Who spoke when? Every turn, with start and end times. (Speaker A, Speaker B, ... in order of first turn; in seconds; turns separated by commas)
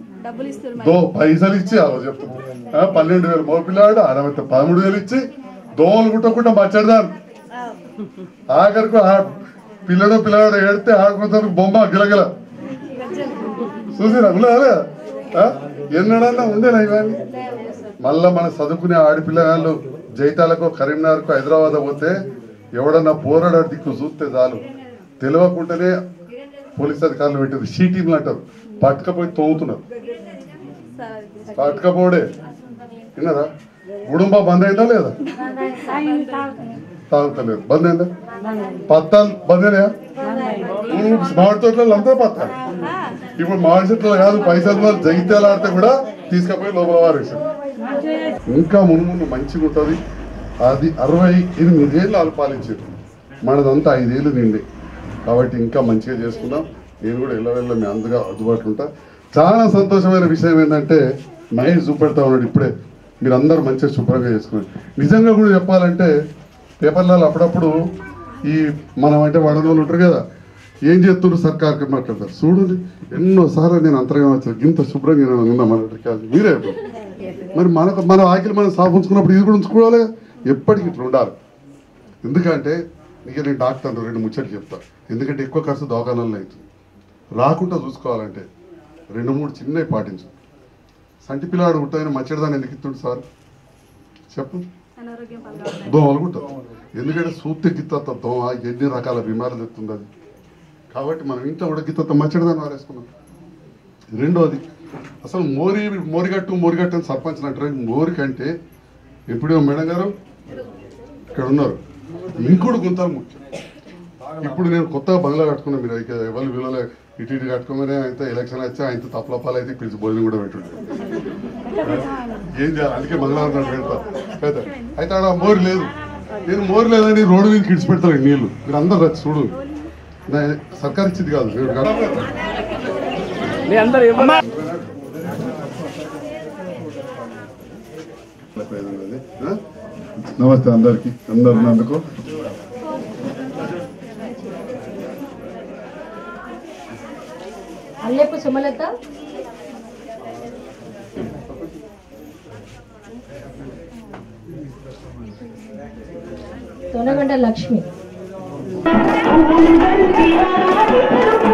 Speaker A: 0.2-0.7, Speaker B: 0.8-5.2, Speaker B: 5.8-7.1, Speaker B: 8.5-9.4, Speaker B: 9.9-12.3, Speaker B: 13.9-17.2, Speaker B: 18.0-22.2, Speaker B: 22.8-24.6, Speaker B: 25.2-25.9, Speaker B: 26.8-29.8, Speaker A: 31.0-31.5, Speaker B: 31.5-32.3, Speaker B: 33.2-33.5, Speaker B: 34.1-35.1, Speaker C: 35.4-36.8, Speaker A: 36.1-36.5, Speaker B: 37.1-38.1, Speaker B: 38.9-39.9, Speaker C: 40.3-40.8, Speaker B: 40.8-42.6, Speaker B: 43.4-47.4, Speaker B: 48.5-50.0, Speaker B: 50.6-54.6, Speaker B: 55.3-61.0, Speaker B: 61.5-62.7, Speaker B: 63.2-66.1, Speaker B: 66.8-67.7, Speaker B: 68.5-70.2, Speaker B: 70.9-76.8, Speaker B: 77.5-81.3, Speaker B: 82.2-86.7, Speaker B: 87.4-88.5, Speaker B: 89.1-90.3, Speaker B: 91.2-93.2, Speaker B: 94.3-94.6, Speaker A: 95.0-95.8, Speaker B: 95.8-100.1, Speaker B: 100.9-103.1, Speaker B: 104.1-104.6, Speaker B: 105.2-108.5, Speaker B: 109.3-110.1, Speaker B: 111.3-111.8, Speaker B: 112.3-113.4, Speaker B: 114.4-120.8, Speaker B: 121.8-125.9, Speaker B: 126.5-129.6, Speaker B: 130.3-132.3, Speaker B: 134.0-134.9, Speaker B: 138.5-139.6, Speaker B: 140.2-142.0, Speaker C: 148.0-148.9, Speaker C: 156.9-157.9